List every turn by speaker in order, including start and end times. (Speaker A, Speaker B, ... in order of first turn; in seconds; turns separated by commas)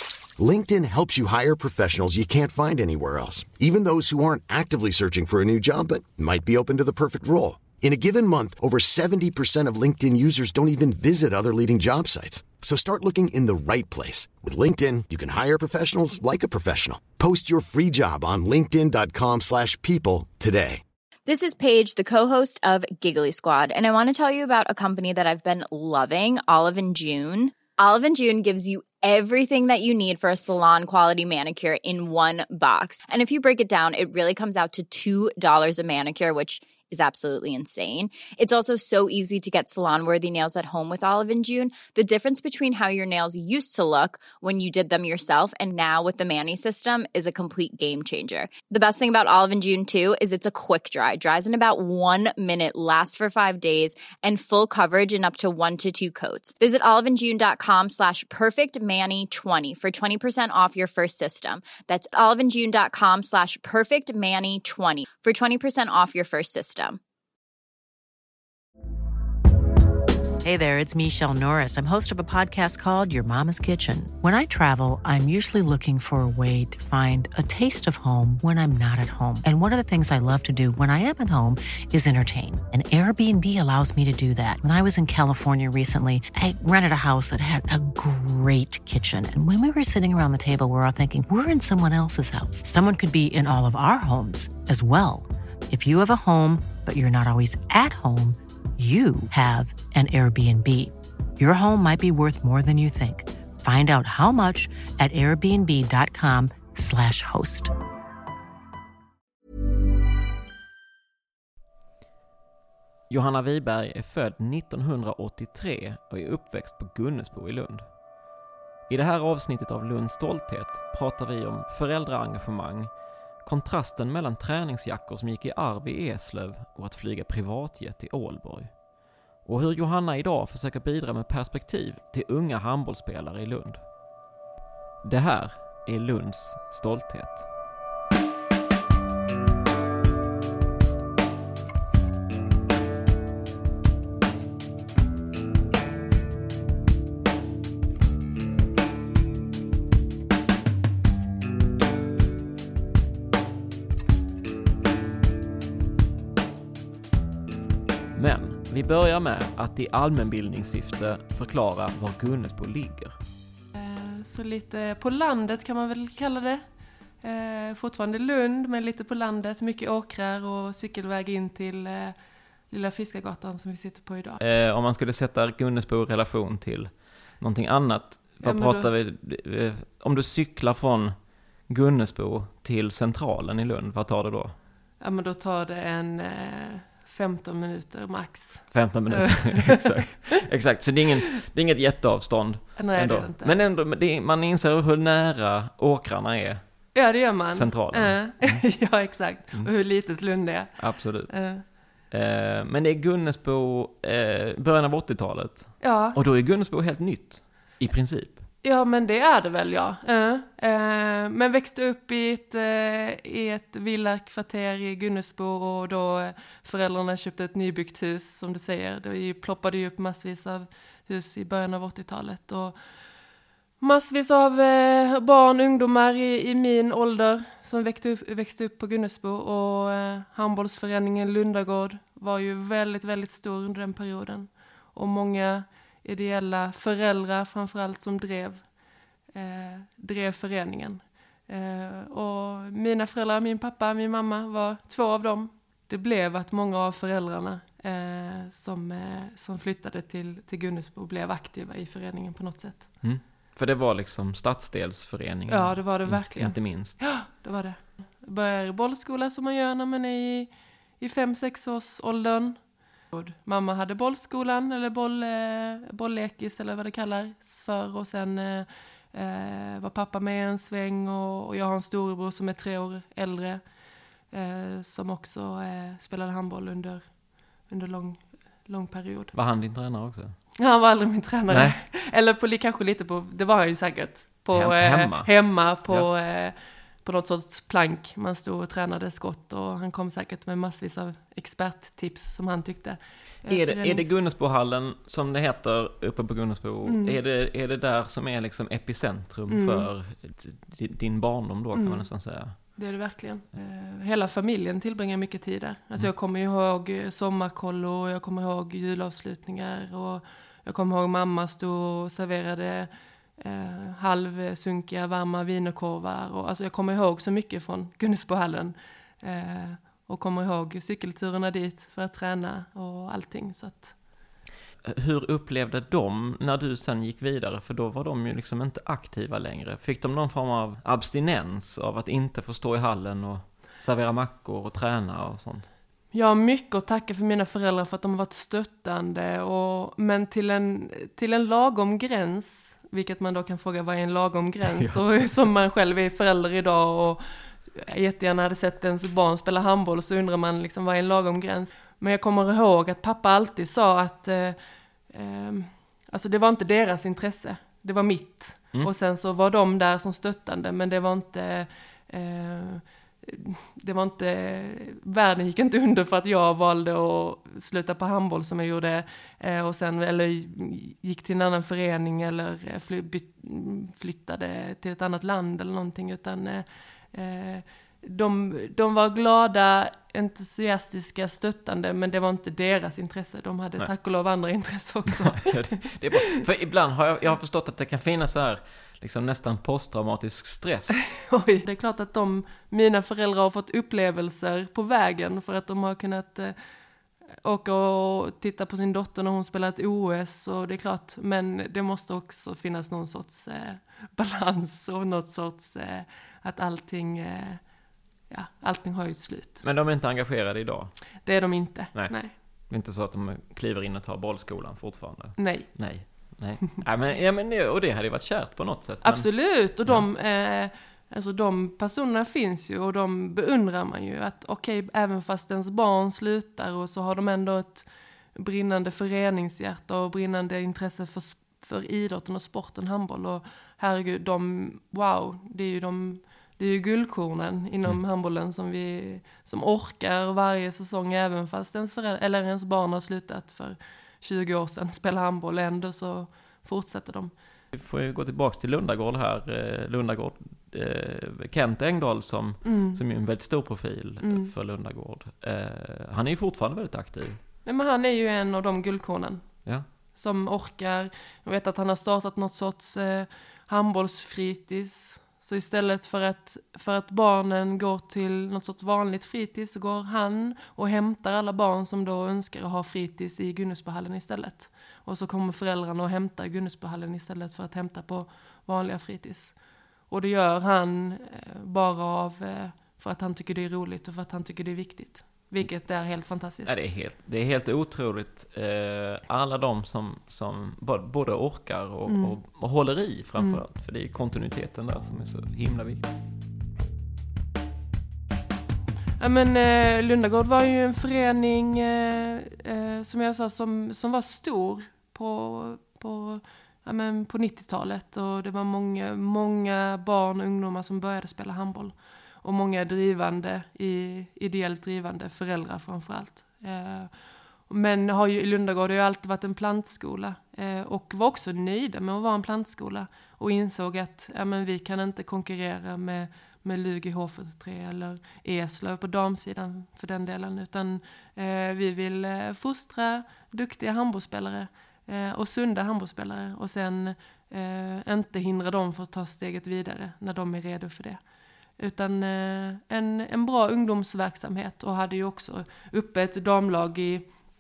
Speaker A: 0.4-20.8, Speaker B: 21.3-67.0, Speaker C: 70.4-107.7, Speaker D: 113.1-117.9, Speaker D: 118.9-122.9, Speaker D: 123.4-128.7, Speaker D: 129.4-133.8, Speaker D: 135.0-137.5, Speaker D: 158.2-163.2, Speaker E: 163.7-166.6, Speaker E: 167.2-172.2, Speaker E: 172.7-174.4, Speaker D: 174.4-181.2, Speaker E: 178.4-178.9, Speaker D: 181.7-184.6, Speaker E: 185.0-189.9, Speaker D: 188.7-198.7, Speaker E: 192.8-193.6, Speaker E: 196.9-201.7, Speaker D: 200.8-208.4, Speaker E: 205.8-206.2, Speaker E: 208.6-222.8, Speaker E: 223.8-238.7, Speaker E: 239.3-252.9, Speaker D: 253.0-257.0, Speaker E: 255.5-262.6, Speaker E: 263.1-273.6, Speaker E: 274.3-277.1, Speaker E: 277.7-279.3, Speaker D: 279.3-280.4, Speaker E: 280.6-294.1, Speaker D: 281.5-281.8, Speaker D: 284.5-286.1, Speaker D: 293.5-302.6, Speaker E: 296.9-297.2, Speaker E: 299.5-299.9, Speaker E: 301.8-324.0, Speaker D: 324.8-335.7, Speaker E: 336.1-386.3, Speaker D: 344.7-345.2, Speaker D: 385.1-391.2, Speaker E: 391.1-396.6, Speaker E: 397.4-407.6, Speaker E: 408.3-409.6, Speaker D: 409.6-411.1, Speaker E: 411.2-412.3, Speaker D: 411.9-420.1, Speaker E: 415.4-415.8, Speaker E: 419.0-447.3, Speaker D: 447.7-457.4, Speaker E: 452.6-453.0, Speaker E: 454.2-454.5, Speaker E: 457.6-459.5, Speaker E: 460.1-479.6, Speaker E: 480.1-486.8, Speaker D: 486.6-496.1, Speaker E: 492.1-492.4, Speaker E: 493.4-493.6, Speaker E: 499.2-541.2, Speaker E: 541.8-547.3